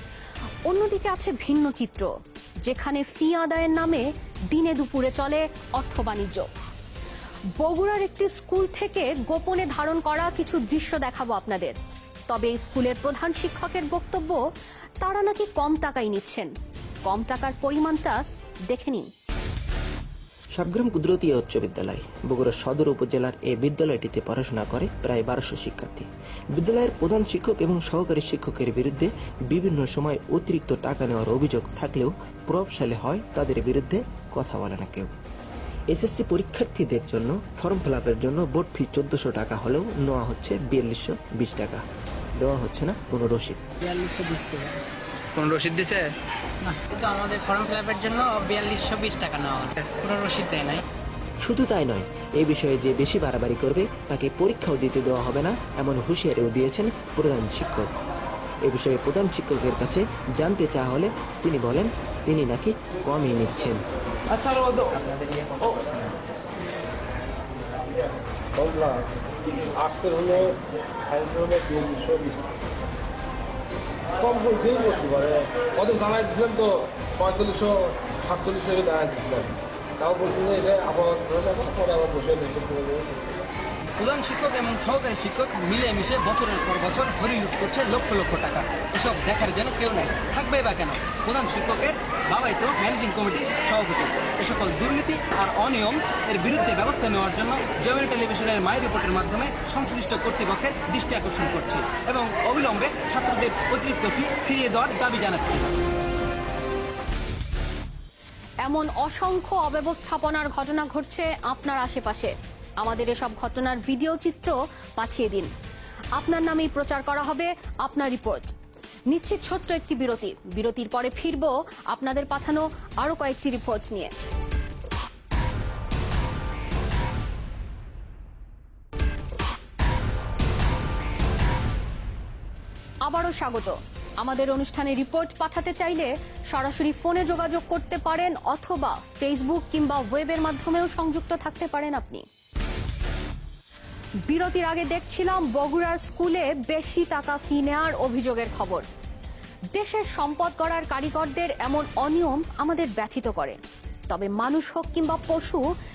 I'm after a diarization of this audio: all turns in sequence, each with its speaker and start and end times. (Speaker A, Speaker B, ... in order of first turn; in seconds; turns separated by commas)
Speaker A: 0.7-2.1, Speaker A: 2.6-6.5, Speaker A: 7.6-11.8, Speaker A: 12.3-14.4, Speaker A: 15.0-16.5, Speaker A: 17.1-19.1, Speaker B: 20.6-35.1, Speaker B: 35.9-41.8, Speaker B: 42.4-43.6, Speaker C: 43.8-44.8, Speaker C: 45.5-46.1, Speaker C: 46.6-50.8, Speaker B: 51.4-58.0, Speaker B: 58.6-63.8, Speaker D: 64.3-66.1, Speaker D: 68.6-69.1, Speaker D: 69.6-72.5, Speaker D: 74.1-83.3, Speaker E: 84.0-105.7, Speaker A: 108.6-115.5, Speaker A: 116.2-118.5, Speaker A: 119.1-124.1, Speaker A: 133.1-142.2, Speaker A: 144.3-148.9, Speaker A: 149.7-153.6, Speaker A: 154.1-155.6